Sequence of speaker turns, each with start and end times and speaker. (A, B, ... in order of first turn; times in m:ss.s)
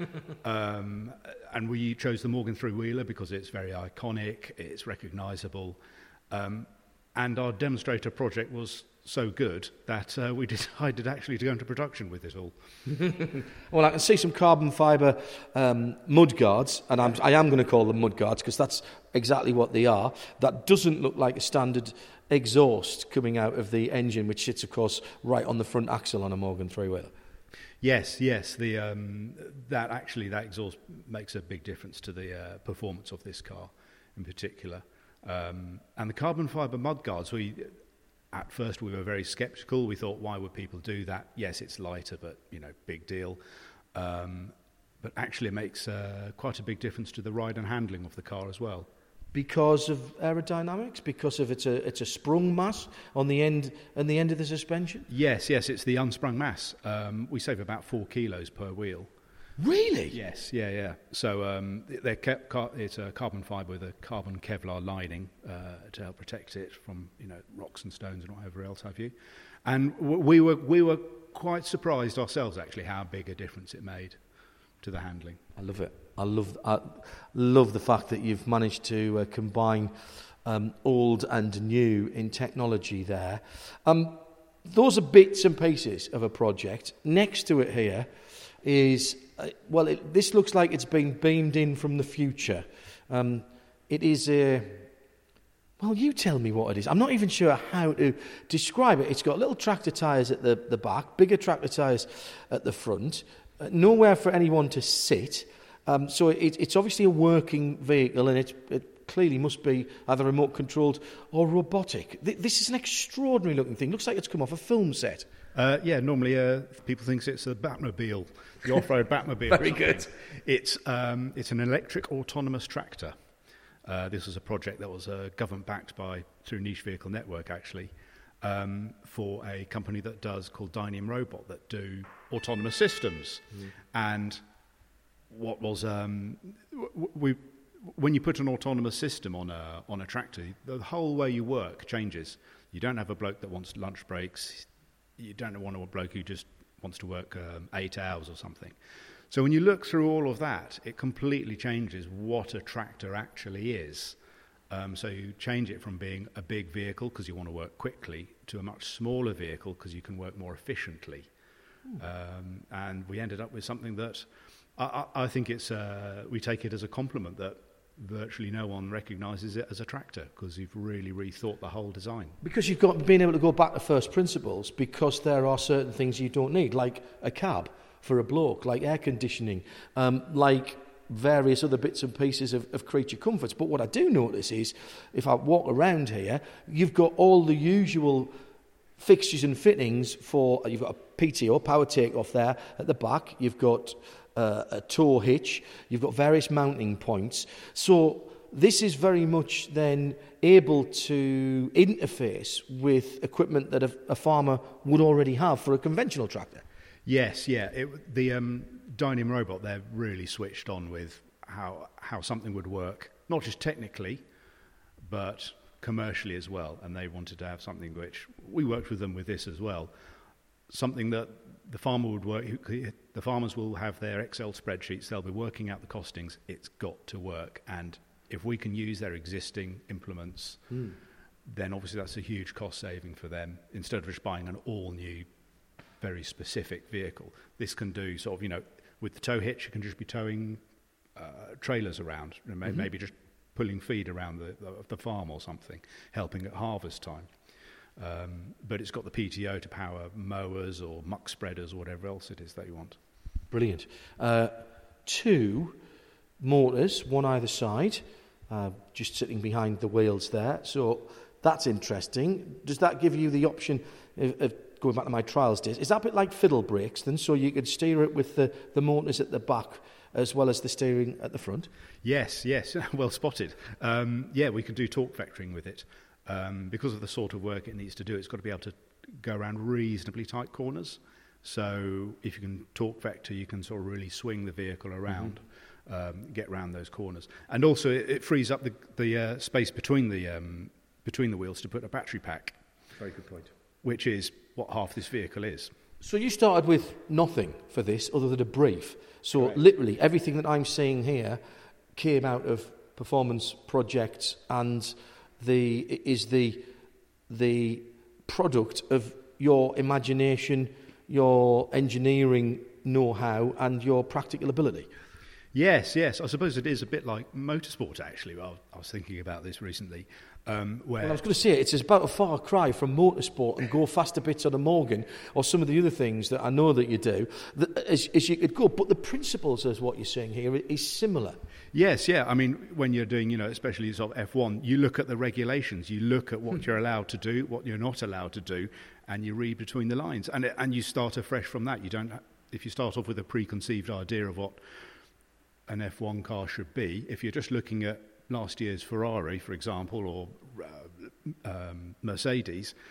0:00.4-0:05.8 A
0:06.3-0:12.6 A
0:12.9-0:27.1 B
0:27.8-0:37.8 A
0:38.3-0:43.4 A
0:43.9-0:48.9 A
0:49.3-0:55.1 B
0:55.1-0:59.1 A
0:59.6-1:00.2 B
1:00.1-1:09.1 A
1:09.6-1:14.2 A
1:14.8-1:15.4 A
1:15.6-1:19.9 B
1:20.4-1:28.1 B
1:28.6-1:34.9 B
1:35.8-1:55.3 B
1:55.5-2:03.2 A
1:59.6-2:00.1 B
2:03.8-2:14.4 A
2:15.3-2:28.8 A
2:29.3-2:34.2 A
2:34.7-2:41.3 A
2:42.0-2:52.4 A
2:52.4-3:08.3 B
3:09.0-3:26.6 B
3:27.0-3:34.2 A
3:35.0-3:39.9 A
3:40.7-3:50.8 A
3:51.4-3:55.3 A
3:56.0-4:00.6 A
4:01.2-4:07.3 A
4:08.0-4:13.0 A
4:13.5-4:15.8 B
4:16.4-4:31.7 B
4:32.0-4:52.6 A
4:53.0-4:53.5 B
4:53.8-4:55.7 A
4:56.0-5:01.4 B
5:02.0-5:06.7 B
5:07.3-5:14.9 B
5:15.5-5:21.2 A
5:21.0-5:31.4 B
5:31.7-5:44.6 A
5:45.7-5:52.8 A